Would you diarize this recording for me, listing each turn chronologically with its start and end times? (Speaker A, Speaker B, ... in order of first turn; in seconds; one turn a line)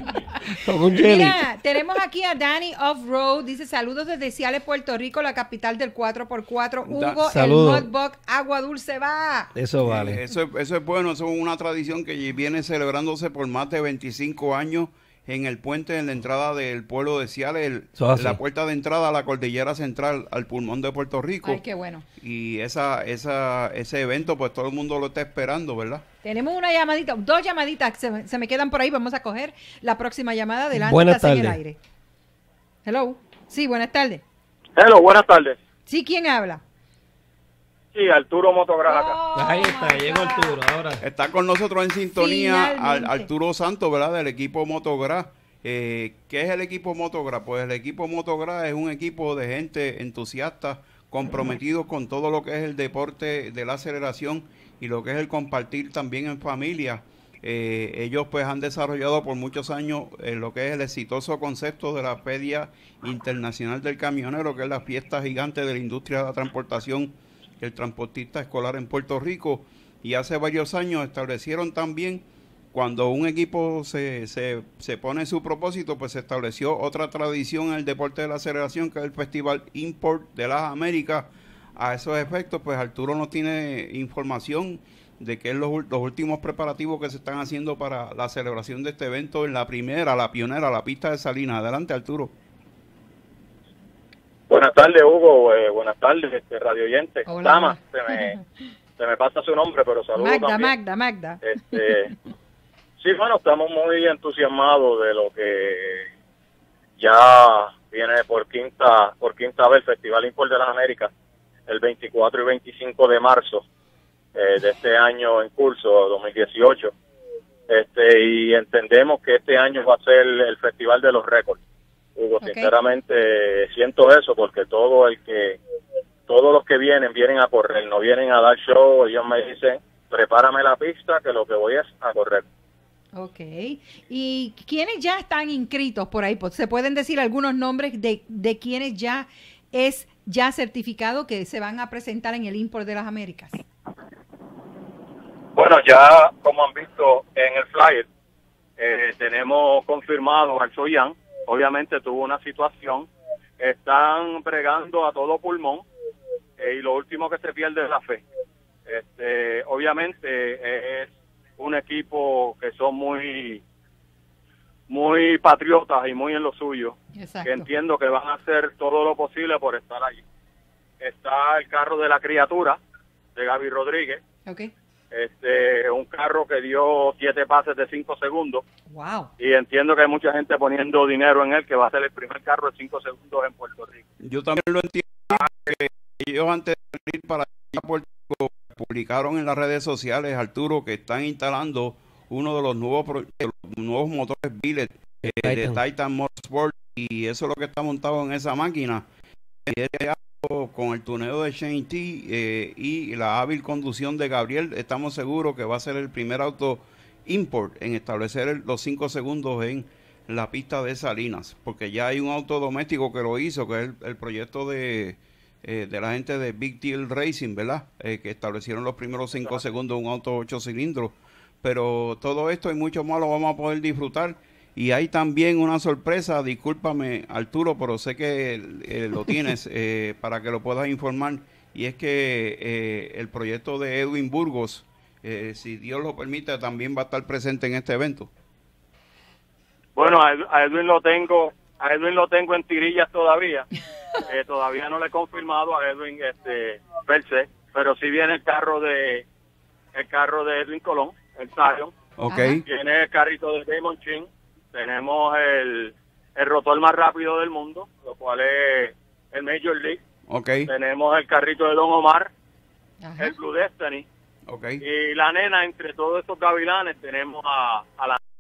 Speaker A: 0.6-1.4
Speaker B: 0.9-9.5
Speaker C: 6.9-7.2
Speaker A: 7.3-7.9
Speaker A: 9.6-10.2
Speaker C: 9.8-21.6
Speaker A: 18.0-18.4
Speaker B: 21.4-22.1
Speaker C: 22.2-26.0
Speaker B: 26.2-31.8
Speaker A: 30.8-31.6
Speaker B: 32.9-34.2
Speaker D: 34.8-35.6
Speaker B: 35.9-36.6
Speaker D: 37.9-39.2
Speaker B: 38.9-40.6
Speaker A: 39.3-41.0
Speaker C: 41.0-92.3
Speaker B: 42.1-43.3
Speaker D: 94.5-98.4
Speaker B: 97.3-98.4
Speaker D: 99.0-100.7
Speaker B: 100.2-101.4
Speaker D: 101.4-102.1
Speaker D: 103.0-106.1
Speaker D: 107.0-111.1
Speaker D: 111.7-113.7
Speaker D: 114.3-116.9
Speaker D: 117.7-121.6
Speaker D: 122.2-125.6
Speaker B: 122.4-122.7
Speaker D: 126.3-132.5
Speaker B: 133.2-143.6
Speaker D: 145.6-148.1
Speaker D: 148.8-153.1
Speaker D: 153.6-155.8
Speaker D: 156.6-158.2
Speaker D: 158.9-163.6
Speaker D: 164.9-170.2
Speaker B: 167.2-167.7
Speaker D: 171.0-172.8
Speaker D: 173.4-174.2
Speaker B: 174.5-174.7
Speaker D: 175.1-178.6
Speaker B: 178.9-179.3
Speaker D: 179.4-184.0
Speaker C: 184.2-199.1
Speaker D: 185.3-185.7
Speaker A: 195.2-195.8
Speaker C: 199.7-238.3
Speaker D: 240.0-243.7
Speaker D: 244.3-249.3
Speaker D: 249.9-251.9
Speaker C: 252.2-252.7
Speaker B: 252.3-252.6
Speaker D: 252.6-260.0
Speaker C: 260.3-260.7
Speaker D: 260.7-262.3
Speaker B: 263.0-263.4
Speaker D: 263.2-264.1
Speaker C: 264.5-264.8
Speaker D: 264.8-268.2